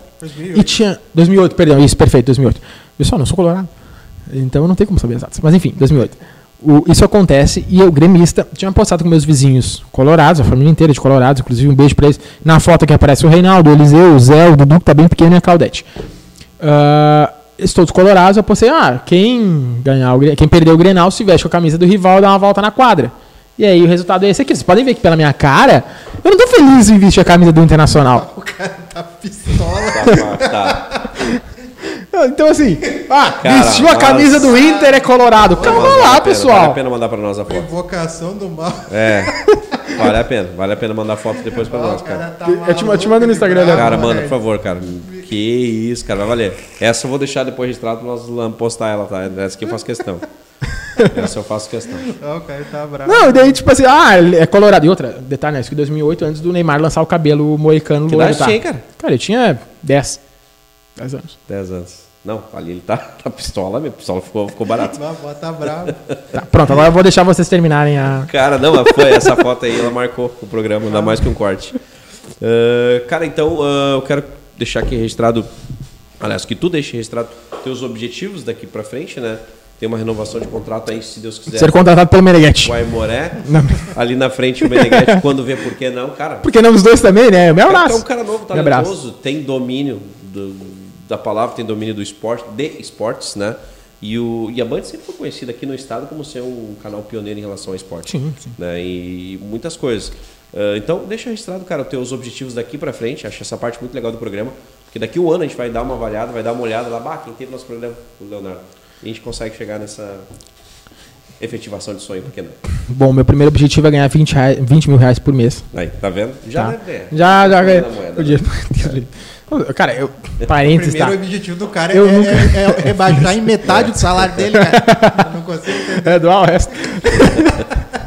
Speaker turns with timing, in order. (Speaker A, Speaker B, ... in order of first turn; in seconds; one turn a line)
Speaker A: 0.2-0.8
Speaker B: 0.5-3.7
Speaker B: 4.3-15.9
Speaker B: 16.6-28.3
Speaker A: 28.1-31.1
Speaker C: 29.6-30.9
Speaker B: 32.1-36.8
Speaker C: 33.4-34.6
Speaker A: 34.4-36.0
Speaker C: 35.5-37.7
Speaker A: 37.5-39.3
Speaker C: 38.9-39.4
Speaker C: 39.9-42.2
Speaker A: 41.5-44.4
Speaker B: 42.4-44.0
Speaker C: 43.7-50.3
Speaker C: 51.0-52.1
Speaker A: 52.1-53.6
Speaker B: 53.1-60.2
Speaker C: 58.1-58.8
Speaker B: 61.0-61.4
Speaker C: 61.5-65.0
Speaker A: 64.9-66.0
Speaker C: 65.9-66.1
Speaker B: 66.3-68.3
Speaker C: 68.2-71.8
Speaker B: 68.8-69.3
Speaker A: 70.9-71.2
Speaker C: 72.4-75.5
Speaker C: 76.2-81.8
Speaker B: 81.5-82.8
Speaker C: 82.6-86.5
Speaker B: 83.4-83.9
Speaker B: 84.7-85.2
Speaker B: 86.4-88.9
Speaker C: 87.7-110.3
Speaker B: 98.1-98.5
Speaker C: 111.4-112.6
Speaker B: 112.9-115.7
Speaker C: 115.7-118.5
Speaker B: 116.5-121.2
Speaker A: 120.6-126.2
Speaker B: 121.9-123.6
Speaker C: 123.7-124.2
Speaker B: 124.5-125.2
Speaker B: 125.9-127.7